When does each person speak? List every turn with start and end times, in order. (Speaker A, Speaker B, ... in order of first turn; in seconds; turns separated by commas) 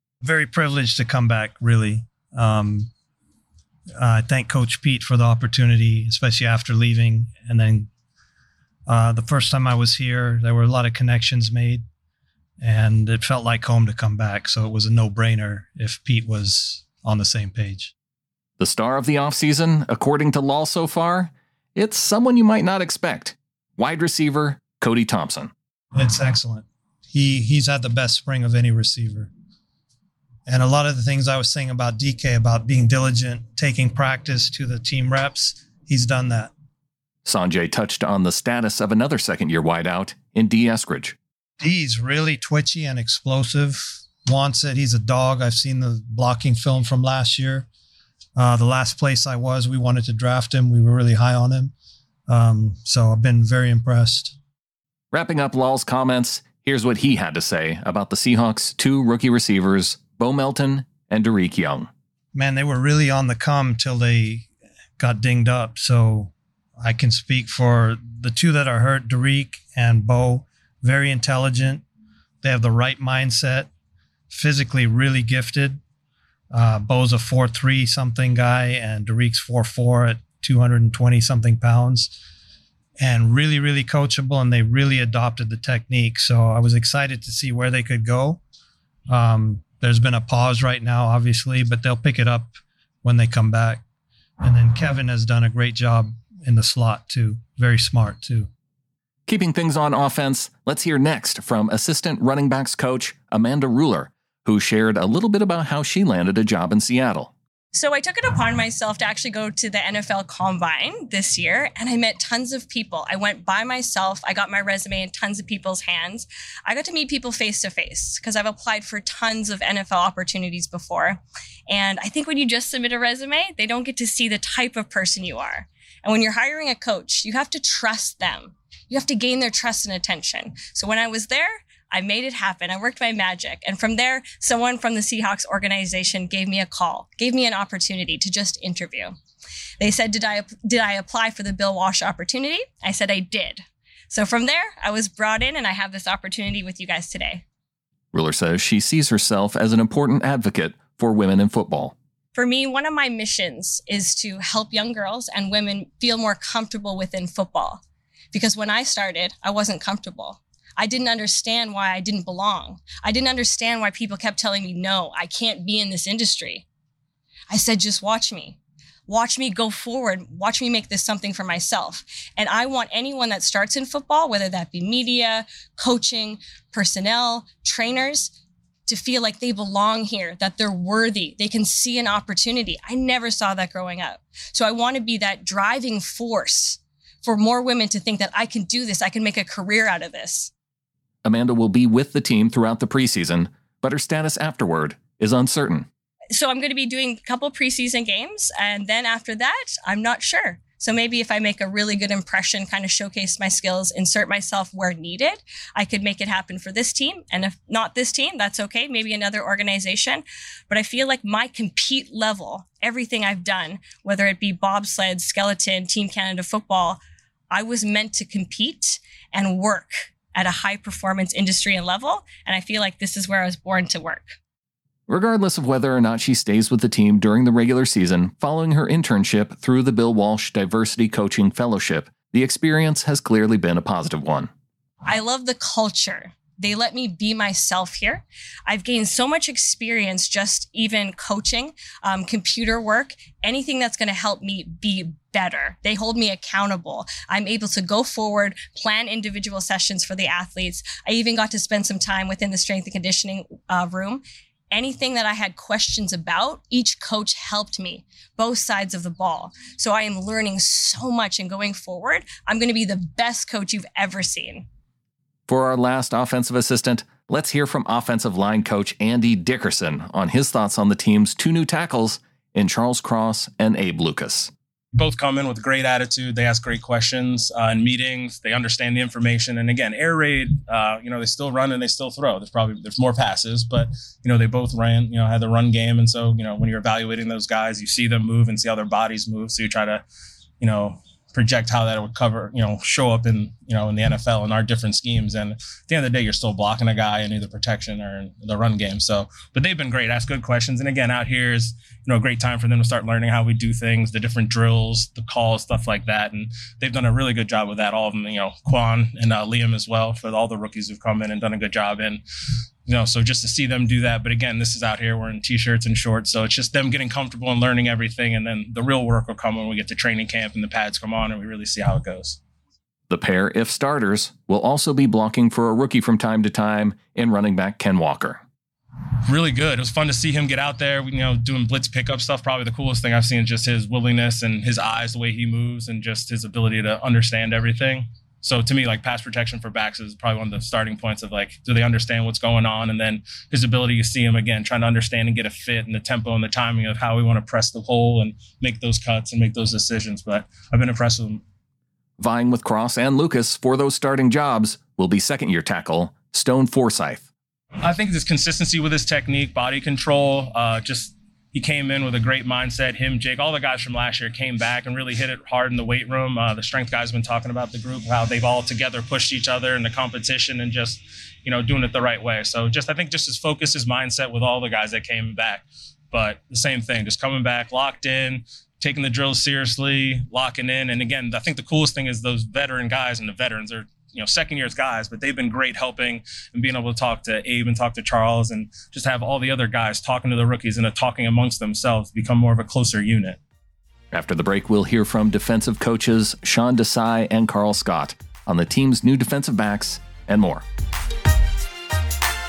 Speaker A: 0.2-2.9, Speaker A: 4.0-7.9, Speaker A: 8.9-11.8, Speaker A: 12.6-17.9, Speaker B: 18.6-25.5, Speaker A: 25.9-29.3, Speaker A: 30.5-36.5, Speaker B: 37.2-41.2, Speaker A: 41.6-47.7, Speaker A: 48.4-51.7, Speaker A: 52.3-54.4, Speaker B: 55.1-61.9, Speaker A: 62.3-64.5, Speaker A: 65.0-71.8, Speaker A: 72.4-73.7, Speaker A: 74.3-75.8, Speaker A: 76.5-82.2, Speaker A: 83.0-88.4, Speaker A: 89.1-93.8, Speaker A: 94.4-98.5, Speaker B: 99.3-107.3, Speaker C: 107.7-139.2, Speaker C: 139.8-147.4, Speaker B: 148.1-151.9, Speaker C: 152.4-157.8, Speaker C: 158.3-166.7, Speaker C: 167.5-168.6, Speaker C: 169.1-178.3, Speaker C: 178.9-190.5, Speaker B: 191.2-195.9, Speaker C: 196.3-217.0, Speaker C: 217.5-224.4, Speaker B: 225.1-234.5, Speaker C: 235.1-264.7, Speaker B: 265.5-274.5, Speaker D: 274.9-290.0, Speaker D: 290.6-312.2, Speaker D: 312.9-322.4, Speaker B: 323.1-328.4, Speaker D: 329.3-351.4, Speaker B: 352.2-357.3, Speaker D: 357.8-393.4, Speaker B: 394.1-400.6